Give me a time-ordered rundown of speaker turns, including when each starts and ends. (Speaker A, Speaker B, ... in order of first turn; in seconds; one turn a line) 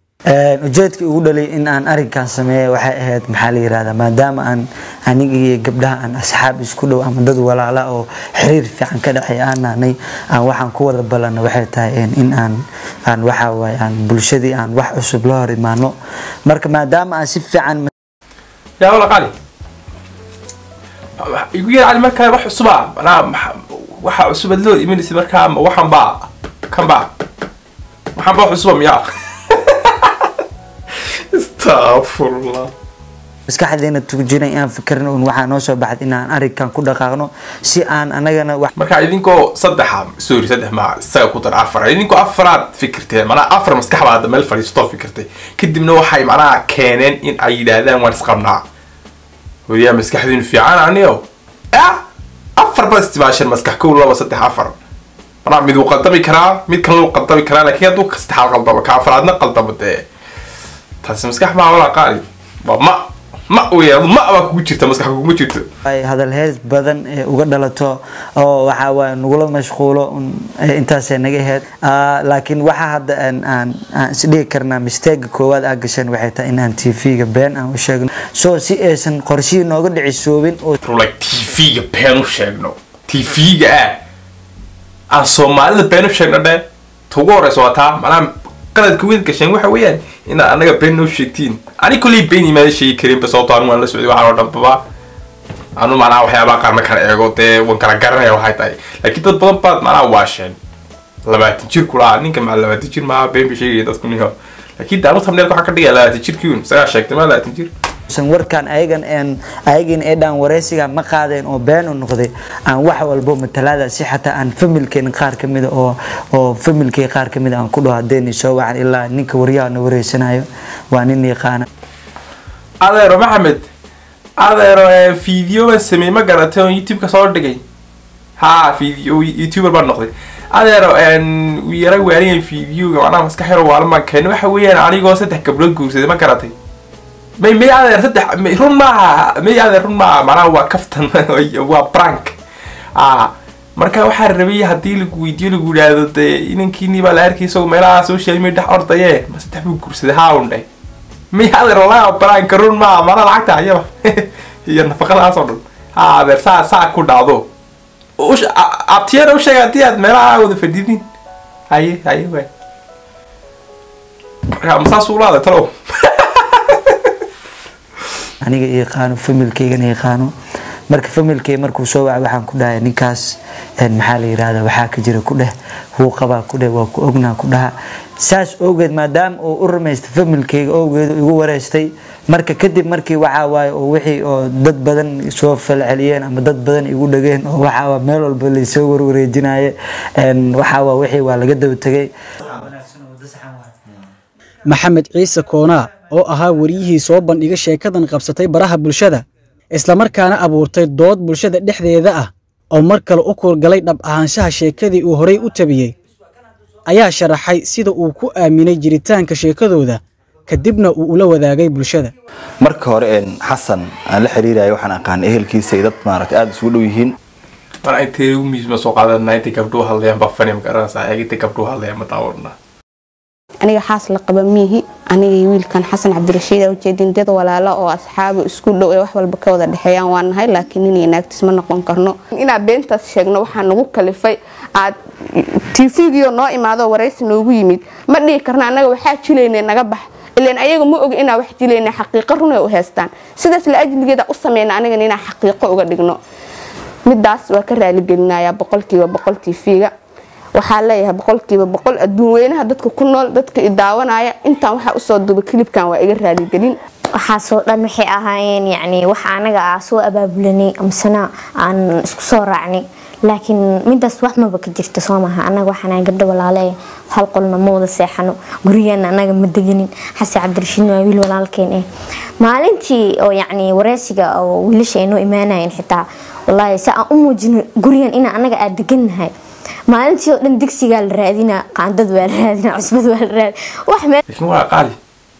Speaker A: 0.3-15.9
Speaker A: 16.4-17.9
Speaker B: 18.8-19.3
Speaker B: 21.2-27.1
Speaker B: 28.1-30.3
Speaker B: 31.3-32.7
Speaker A: 33.5-38.7
Speaker B: 38.8-48.6
Speaker B: 49.7-52.0
Speaker B: 52.6-54.8
Speaker B: 55.4-60.0
Speaker B: 61.0-65.7
Speaker A: 65.8-80.7
Speaker B: 80.8-84.0
Speaker B: 85.1-94.8
Speaker B: 95.8-100.6
Speaker B: 101.2-107.7
Speaker A: 108.1-121.7
Speaker B: 122.8-123.7
Speaker B: 124.4-127.6
Speaker B: 128.4-136.5
Speaker B: 137.4-142.4
Speaker B: 142.9-150.7
Speaker B: 151.3-157.5
Speaker B: 158.2-161.0
Speaker B: 161.7-162.5
Speaker B: 164.6-167.1
Speaker A: 168.4-170.3
Speaker A: 170.9-193.7
Speaker C: 194.7-205.9
Speaker C: 206.9-212.1
Speaker D: 212.6-217.1
Speaker B: 217.8-222.5
Speaker E: 223.6-246.2
Speaker E: 247.1-249.9
Speaker E: 250.5-256.7
Speaker F: 257.1-271.9
Speaker F: 272.4-279.3
Speaker F: 279.9-284.2
Speaker B: 284.3-285.0